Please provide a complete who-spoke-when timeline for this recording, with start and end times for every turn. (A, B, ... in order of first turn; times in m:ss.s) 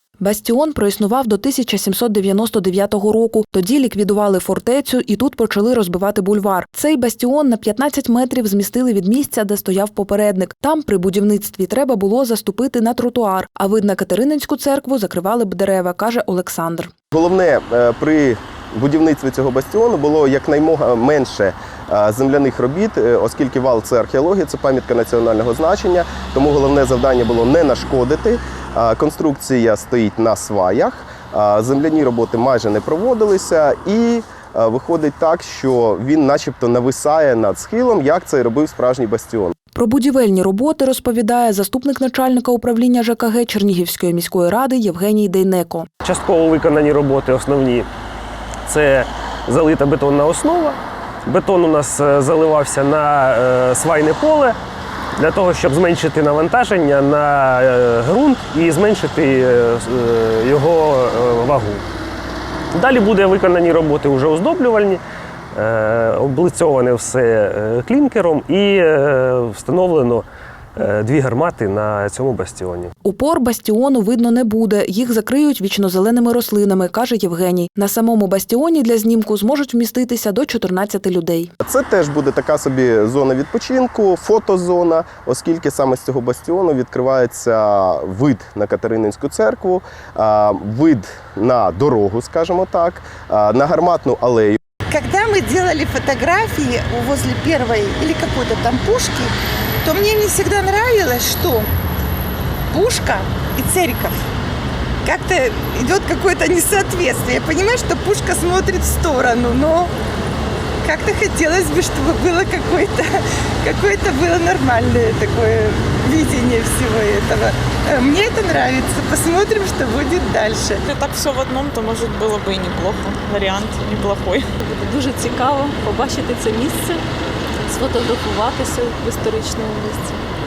0:00.2-0:16.9 A
0:17.1-0:39.6 B
0:39.8-0:45.9 A
0:46.0-0:47.9 C
0:48.7-0:54.6 C
0:55.2-1:01.8 C
1:02.7-1:05.0 C
1:05.5-1:12.9 C
1:13.0-1:21.5 A
1:21.6-1:34.6 B
1:34.9-1:41.7 D
1:42.7-1:44.2 D
1:45.0-1:49.9 D
1:50.8-2:00.8 D
2:00.9-2:04.5 E
2:04.6-2:07.0 F
2:07.7-2:10.2 F